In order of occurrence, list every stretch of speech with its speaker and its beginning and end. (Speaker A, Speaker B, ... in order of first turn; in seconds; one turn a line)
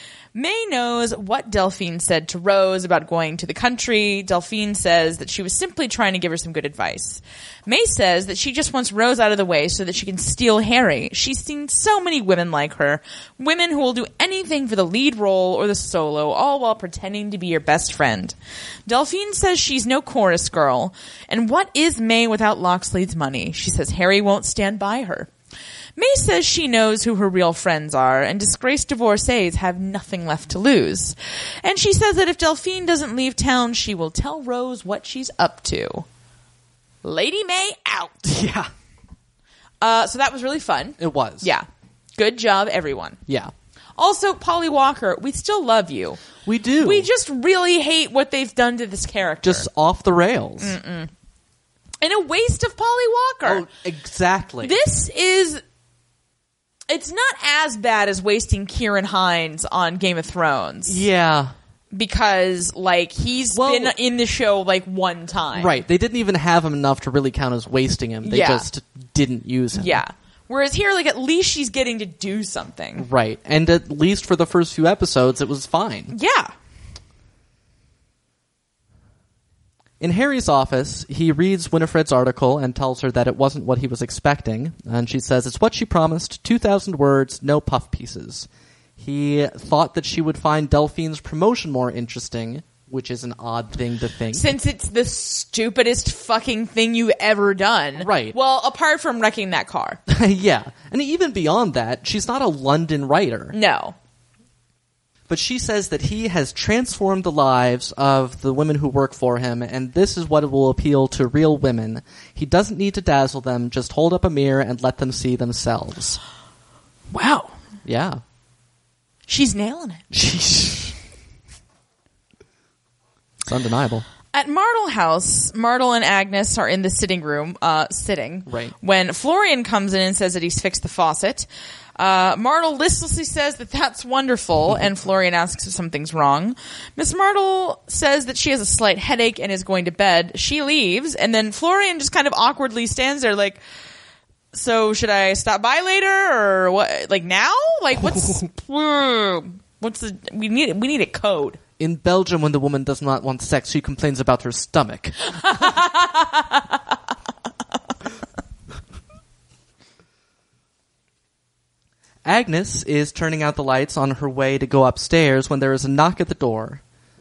Speaker A: 0.3-18.3
Speaker A: 18.9-25.3
Speaker A: 26.0-36.0
Speaker A: 37.0-38.2
Speaker B: 38.2-38.7
Speaker A: 39.8-41.6
Speaker B: 41.0-41.5
Speaker A: 42.2-43.2
Speaker B: 43.3-43.5
Speaker A: 44.0-46.2
Speaker B: 46.5-47.1
Speaker A: 46.8-49.7
Speaker B: 49.4-50.8
Speaker A: 50.6-51.1
Speaker A: 52.0-53.6
Speaker B: 53.4-54.8
Speaker A: 54.6-55.6
Speaker A: 56.9-61.0
Speaker B: 60.9-61.5
Speaker A: 61.9-65.8
Speaker B: 63.5-63.9
Speaker B: 65.5-70.0
Speaker A: 68.2-68.7
Speaker A: 69.7-73.1
Speaker B: 73.0-76.1
Speaker A: 76.1-76.5
Speaker B: 80.0-94.5
Speaker A: 94.3-100.0
Speaker B: 98.0-98.3
Speaker B: 100.1-103.5
Speaker A: 103.5-103.9
Speaker B: 105.3-116.2
Speaker A: 117.1-117.6
Speaker B: 117.8-118.2
Speaker A: 119.3-120.0
Speaker B: 120.1-121.0
Speaker B: 123.4-124.0
Speaker A: 124.3-131.5
Speaker B: 128.5-128.7
Speaker A: 132.0-143.6
Speaker A: 144.5-151.6
Speaker B: 148.0-148.4
Speaker B: 151.8-155.8
Speaker A: 155.4-156.7
Speaker B: 162.2-166.8